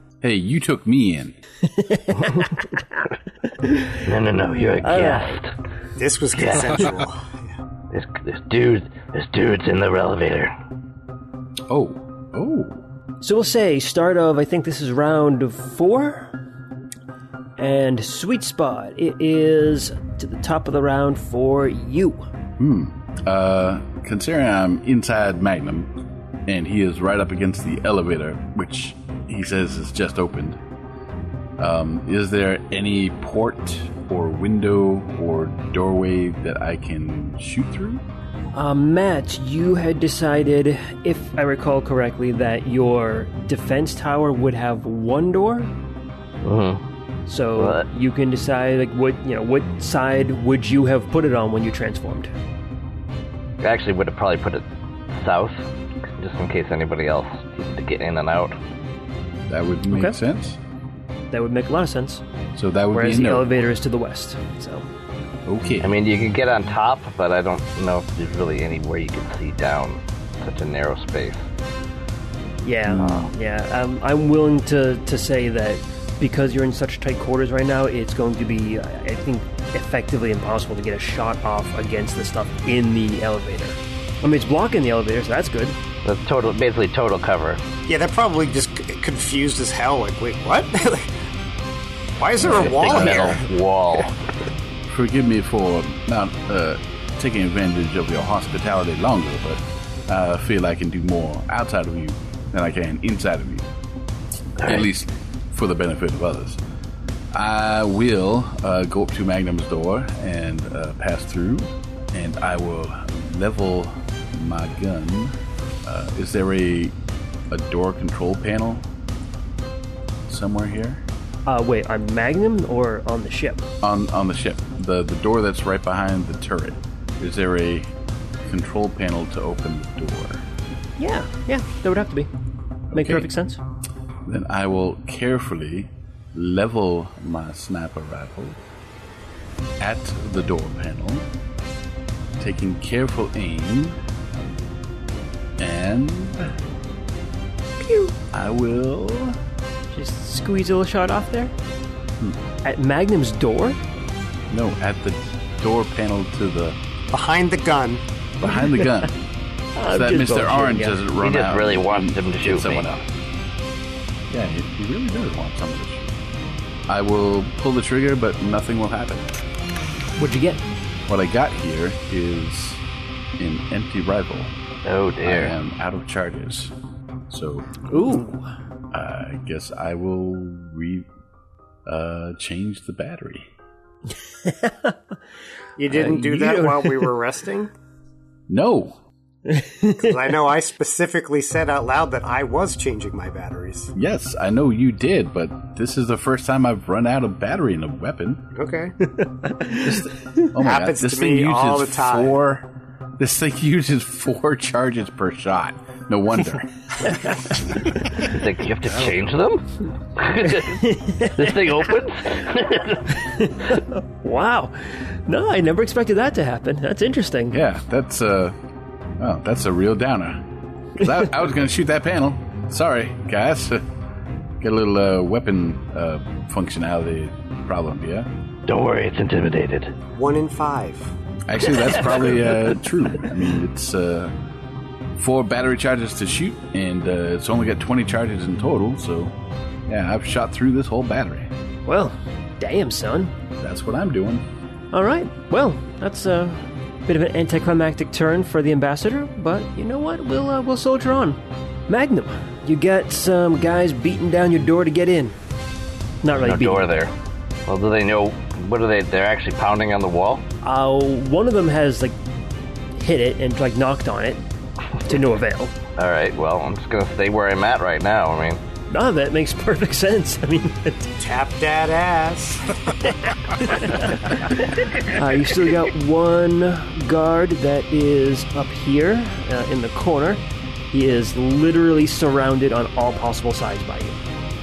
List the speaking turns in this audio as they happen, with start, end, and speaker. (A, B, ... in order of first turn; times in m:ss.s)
0:00.2-0:01.4 A
0:01.7-0:02.5 B
0:03.6-0:03.9 B
0:04.0-0:05.5 C
0:04.8-0:05.4 B
0:06.0-0:07.4 D
0:06.3-0:06.8 C
0:07.9-0:10.5 C
0:11.7-0:12.8 A
0:13.2-0:16.4 B
0:17.6-0:22.2 B
0:22.6-0:25.9 A
0:26.5-0:30.6 A
0:31.6-0:38.0 A
0:38.5-0:45.7 B
0:46.4-0:46.8 C
0:47.3-0:52.3 B
0:47.6-0:47.8 C
0:53.6-0:55.6 C
0:56.2-0:58.6 C
0:59.5-1:00.6 A
0:59.9-1:00.2 B
1:01.3-1:02.2 B
1:02.5-1:03.6 A
1:02.9-1:04.9 B
1:05.4-1:06.0 A
1:05.8-1:11.4 C
1:12.6-1:25.8 B
1:12.8-1:13.3 A
1:26.0-1:27.6 C
1:27.9-1:31.1 D
1:32.2-1:33.5 D
1:32.4-1:34.1 C
1:34.9-1:43.7 A
1:44.6-1:46.6 A
1:47.3-1:56.9 A
1:57.5-1:58.9 A
2:00.3-2:01.0 A
2:01.4-2:03.7 B
2:03.8-2:07.9 A
2:08.4-2:10.4 A
2:11.0-2:12.3 B
2:12.9-2:13.3 A
2:12.9-2:13.6 B
2:14.2-2:18.6 A
2:19.8-2:21.3 A
2:22.4-2:24.0 A
2:25.6-2:26.5 A
2:27.8-2:28.1 B
2:28.3-2:29.4 A
2:29.9-2:31.5 B
2:32.6-2:33.8 B
2:34.5-2:36.8 A
2:37.1-2:38.0 D
2:38.4-2:39.1 A
2:38.6-2:38.9 B
2:39.8-2:41.0 B
2:39.9-2:43.0 A
2:41.2-2:42.9 C
2:44.3-2:46.2 A
2:46.9-2:49.3 A
2:50.2-2:50.6 B
2:51.1-2:52.8 A
2:53.4-2:54.6 A
2:54.8-2:55.5 C
2:55.2-2:56.7 A
2:57.3-2:57.8 A
2:57.9-2:58.4 B
2:58.9-3:01.1 A
3:01.8-3:03.5 A
3:04.4-3:05.0 B
3:05.8-3:07.7 D
3:05.9-3:07.2 B
3:08.5-3:09.0 A
3:09.5-3:10.1 B
3:10.0-3:13.9 D
3:13.9-3:18.5 A
3:18.5-3:19.0 D
3:19.2-3:20.5 B
3:19.8-3:26.7 A
3:20.6-3:22.4 D
3:27.0-3:27.3 B
3:28.2-3:29.6 C
3:30.2-3:33.3 C
3:30.4-3:32.0 B
3:33.2-3:37.6 B
3:37.5-3:38.6 A
3:39.2-3:40.4 A
3:41.0-3:43.8 A
3:44.6-3:48.3 A
3:48.7-3:49.9 C
3:50.1-3:51.1 D
3:51.5-3:54.3 A
3:55.2-3:59.3 A
3:59.9-4:01.5 A
4:01.8-4:03.3 B
4:03.6-4:04.4 A
4:04.9-4:15.4 B
4:16.2-4:16.9 B
4:16.3-4:17.1 C
4:17.7-4:20.4 C
4:20.6-4:22.2 B
4:23.0-4:24.4 B
4:25.0-4:25.7 B
4:26.0-4:28.6 C
4:28.9-4:31.1 B
4:31.2-4:33.1 D
4:33.6-4:34.0 B
4:35.0-4:44.2 B